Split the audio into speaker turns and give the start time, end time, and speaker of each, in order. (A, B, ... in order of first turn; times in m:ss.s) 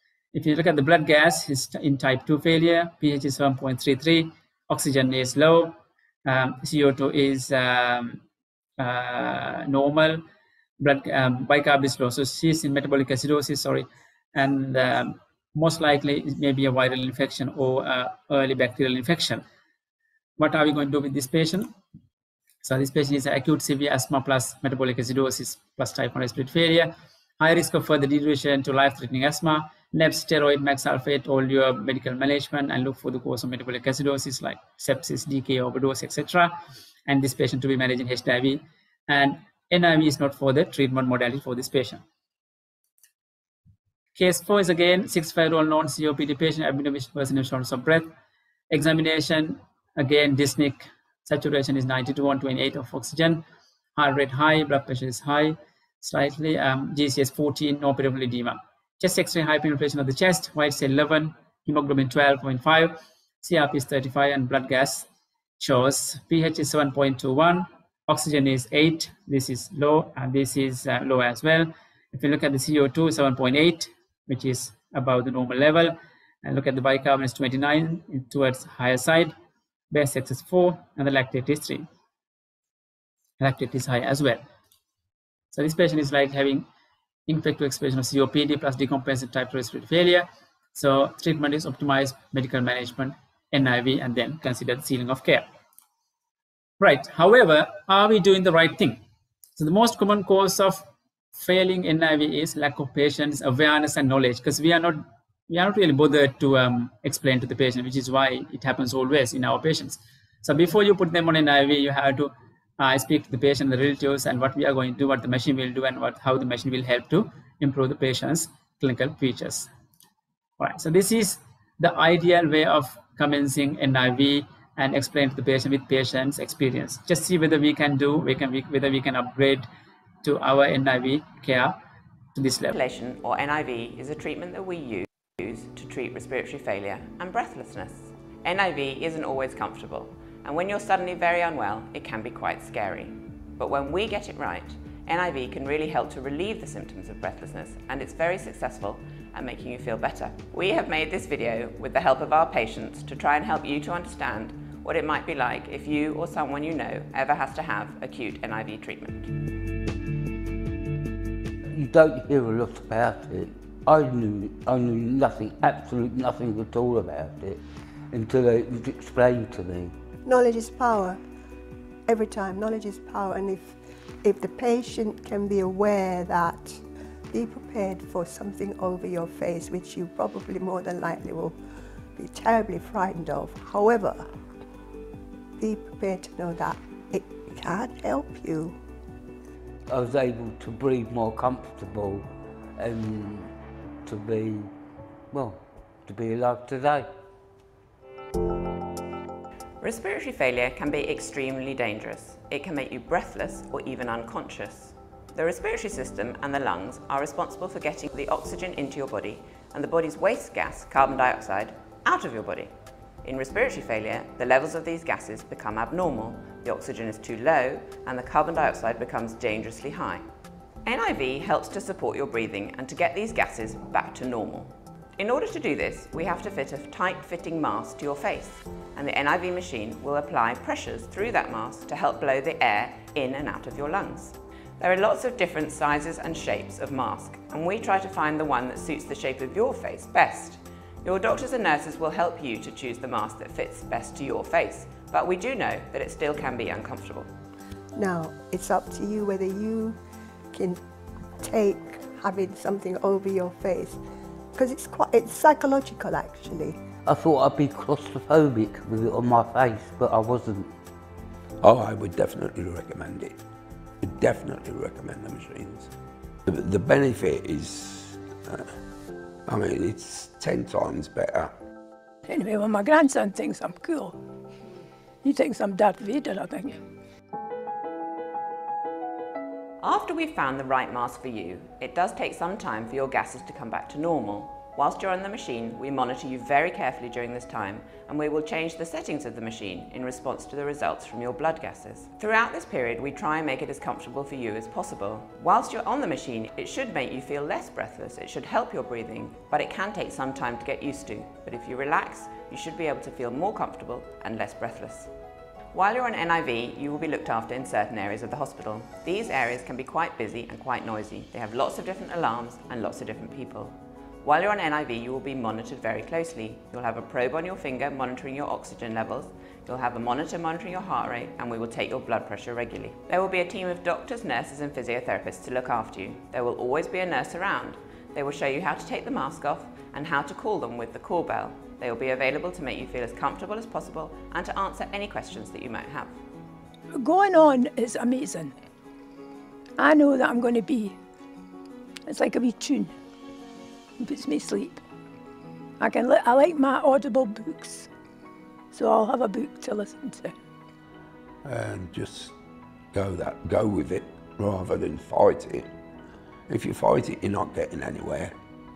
0:00.3-0:08.2 A
0:08.8-0:10.2 A
0:10.8-0:19.4 A
0:20.4-0:21.7 A
0:22.6-0:42.0 A
0:44.2-0:48.1 A
0:48.7-0:53.4 A
0:54.0-1:05.1 A
1:05.6-1:19.3 A
1:19.9-1:21.9 A
1:23.4-1:24.4 A
1:25.5-1:26.7 A
1:27.3-1:35.5 A
1:36.8-1:39.0 A
1:39.6-1:59.7 A
2:00.6-2:09.7 A
2:10.2-2:11.8 A
2:12.4-2:12.7 A
2:12.7-2:39.3 B
2:41.7-2:49.9 C
2:50.2-2:51.2 D
2:52.1-3:04.4 D
3:05.6-3:08.8 D
3:09.9-3:13.5 C
3:14.0-3:14.7 C
3:15.3-3:17.1 C
3:19.8-3:40.3 B
3:40.8-4:07.3 B
4:08.0-4:10.0 D
4:10.5-4:10.8 D
4:11.3-4:16.8 D
4:17.0-4:20.7 C
4:21.6-4:23.4 E
4:24.0-4:25.9 E
4:26.5-4:28.8 E
4:29.5-4:31.5 E
4:32.3-4:34.2 F
4:35.2-4:36.8 F
4:39.8-5:05.1 B
5:05.7-5:36.2 B
5:36.9-5:38.6 F
5:39.8-5:41.0 F
5:42.1-5:43.0 F
5:44.0-5:44.8 F
5:45.8-5:47.9 F
5:48.7-5:50.4 F
5:51.4-5:52.4 E
5:52.9-5:55.7 E
5:56.5-5:58.3 E